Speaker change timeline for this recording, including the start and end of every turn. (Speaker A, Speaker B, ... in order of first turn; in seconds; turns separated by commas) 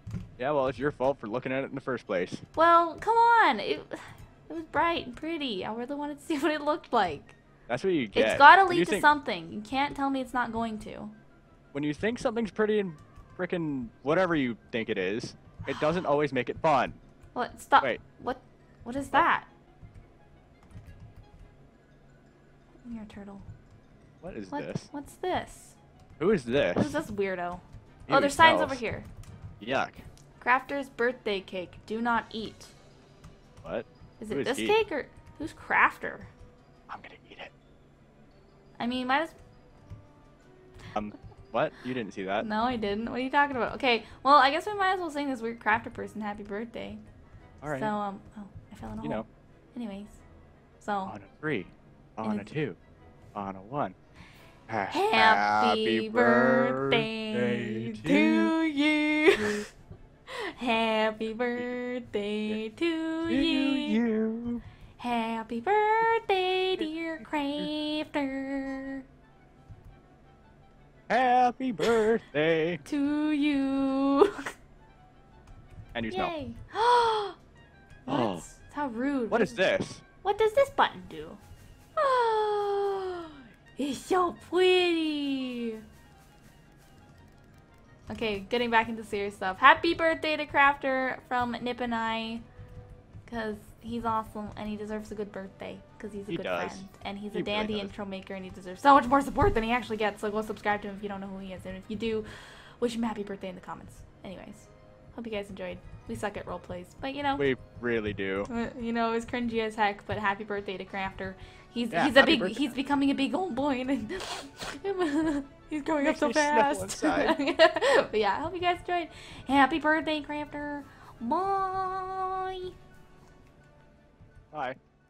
Speaker A: 0.4-2.4, Speaker B: 2.5-7.4, Speaker A: 7.7-9.1, Speaker B: 8.1-11.1, Speaker A: 11.7-17.0, Speaker B: 17.3-19.5, Speaker B: 22.8-23.4, Speaker A: 24.2-24.9, Speaker B: 24.5-25.8, Speaker A: 26.2-27.0, Speaker B: 26.8-29.1, Speaker A: 28.1-28.8, Speaker A: 29.6-30.0, Speaker B: 30.4-32.7, Speaker A: 33.6-34.8, Speaker B: 34.2-36.3, Speaker A: 36.9-37.5, Speaker B: 38.8-39.4, Speaker A: 40.9-42.5, Speaker B: 42.4-47.0, Speaker A: 47.6-47.9, Speaker B: 47.7-50.2, Speaker B: 50.8-51.1, Speaker A: 51.1-52.8, Speaker B: 52.2-52.5, Speaker A: 53.3-54.0, Speaker A: 54.7-58.5, Speaker B: 54.9-59.6, Speaker A: 59.4-59.6, Speaker B: 60.3-64.0, Speaker A: 63.3-64.6, Speaker B: 65.0-69.0, Speaker A: 66.8-67.7, Speaker A: 71.1-72.8, Speaker B: 72.8-74.4, Speaker A: 75.9-76.3, Speaker B: 76.1-77.4, Speaker A: 78.0-78.4, Speaker B: 78.0-79.6, Speaker A: 79.3-80.0, Speaker B: 80.2-81.4, Speaker B: 82.0-85.8, Speaker B: 88.1-92.4, Speaker B: 93.2-102.3, Speaker A: 96.3-97.9, Speaker B: 102.8-107.4, Speaker A: 107.4-108.5, Speaker B: 108.5-122.7, Speaker A: 111.9-112.7, Speaker A: 116.0-117.3, Speaker A: 124.5-124.8